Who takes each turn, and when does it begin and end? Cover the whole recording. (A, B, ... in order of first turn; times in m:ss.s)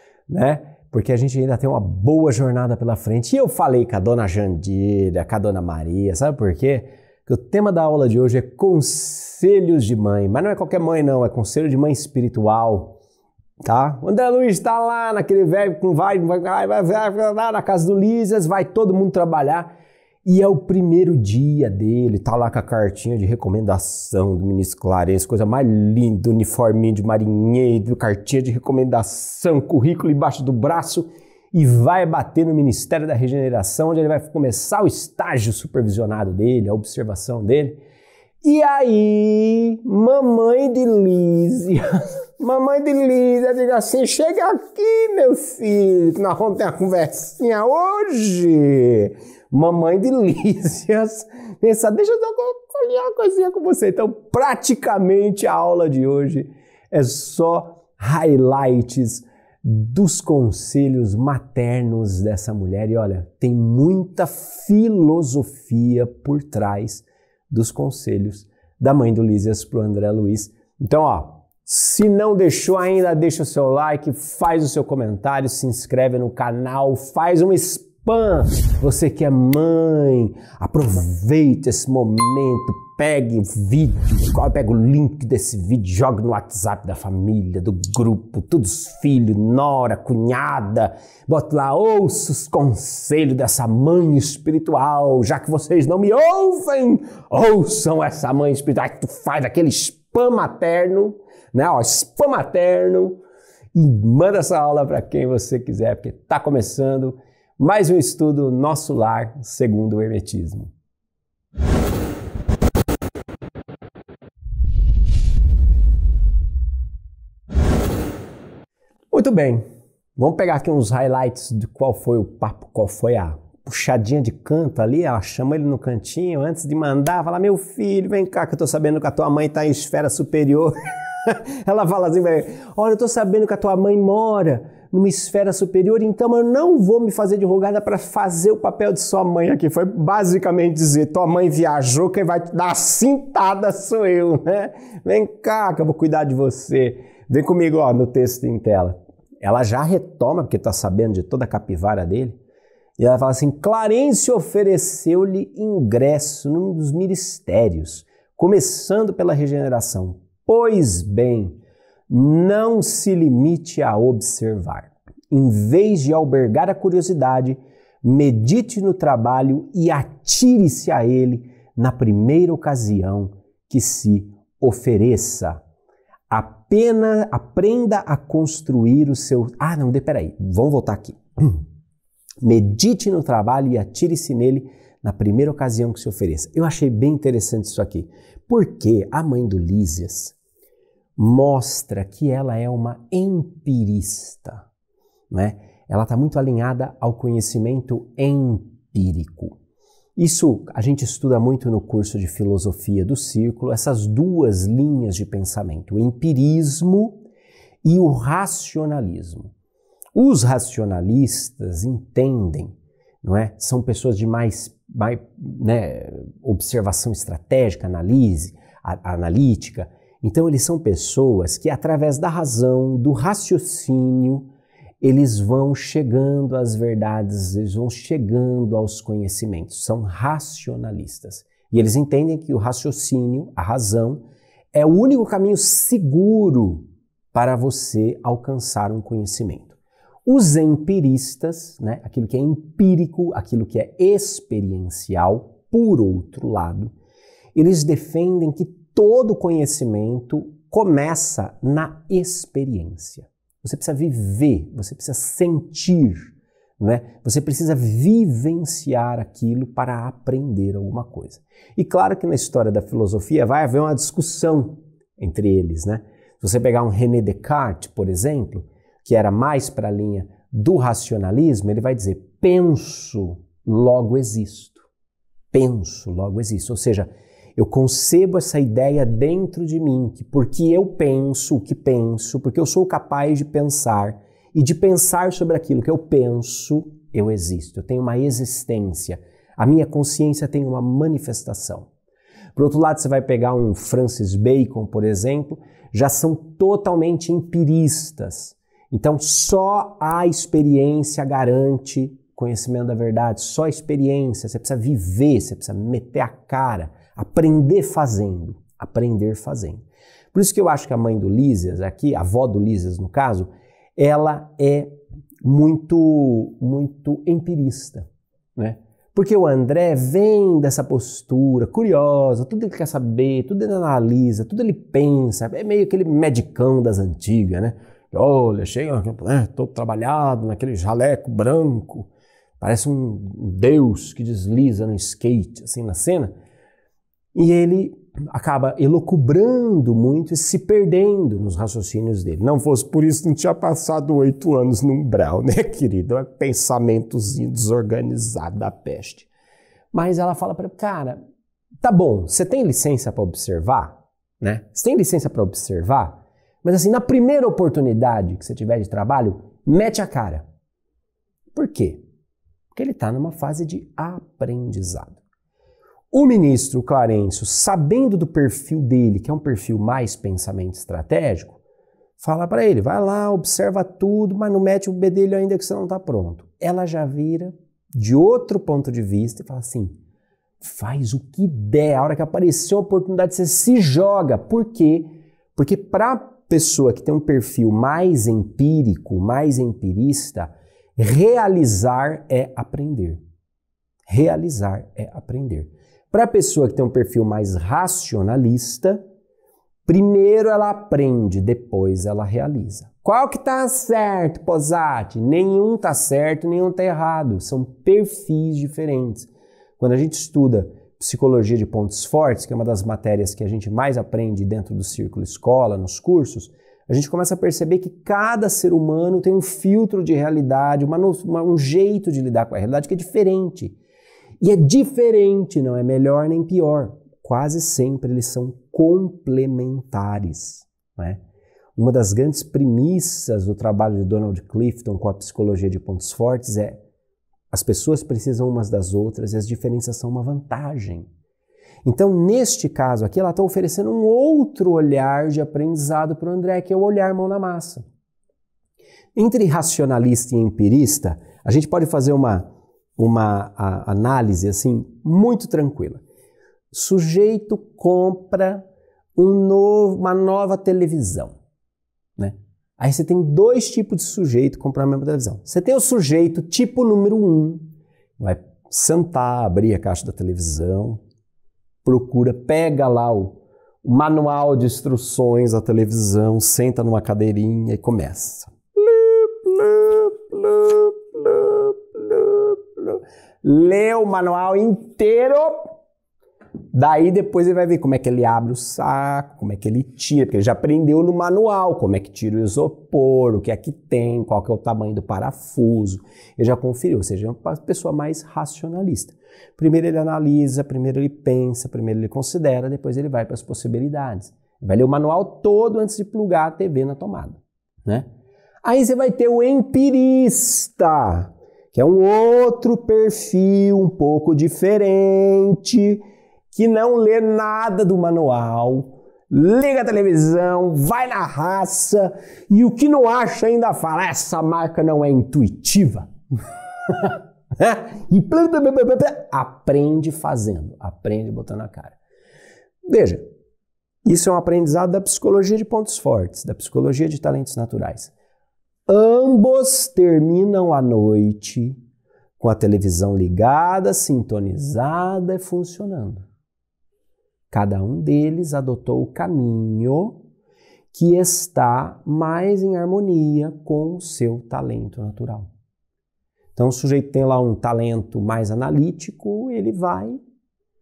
0:00.3-0:13.0 A
0:13.6-0:19.7 A
0:20.2-0:37.8 A
0:38.4-1:43.2 A
1:43.7-1:50.7 A
1:59.1-1:59.6 A
2:00.2-2:10.7 A
2:11.2-2:32.4 A
2:33.0-2:55.6 A
2:56.3-3:01.7 A
3:02.4-3:10.4 A
3:11.2-3:14.7 A
3:15.3-3:19.6 A
3:20.2-3:27.2 A
3:27.8-3:29.5 A
3:30.2-3:44.5 A
3:45.0-4:06.9 A
4:07.6-4:34.9 A
4:35.5-4:51.9 A
4:52.6-5:32.1 A
5:32.6-5:36.4 A
5:37.4-5:49.3 A
5:49.9-5:51.2 A
5:51.8-6:00.4 A
6:01.5-6:02.0 A
6:02.7-6:05.2 A
6:06.1-6:11.6 A
6:12.2-6:20.0 A
6:20.6-6:33.2 A
6:34.1-6:39.0 A
6:39.9-7:03.8 A
7:04.4-7:11.2 A
7:11.8-7:16.8 A
7:17.5-7:21.1 A
7:21.8-7:27.9 A
7:29.2-7:36.0 A
7:36.7-7:41.4 A
7:42.2-7:51.0 A
7:51.8-8:05.7 A
8:06.7-8:28.1 A
8:28.6-8:46.1 A
8:46.9-8:52.0 A
8:52.9-8:53.3 A
8:54.0-8:58.1 A
8:58.9-9:01.8 A
9:02.4-9:06.2 A
9:07.5-9:10.2 A
9:10.9-9:15.5 A
9:16.6-9:20.2 A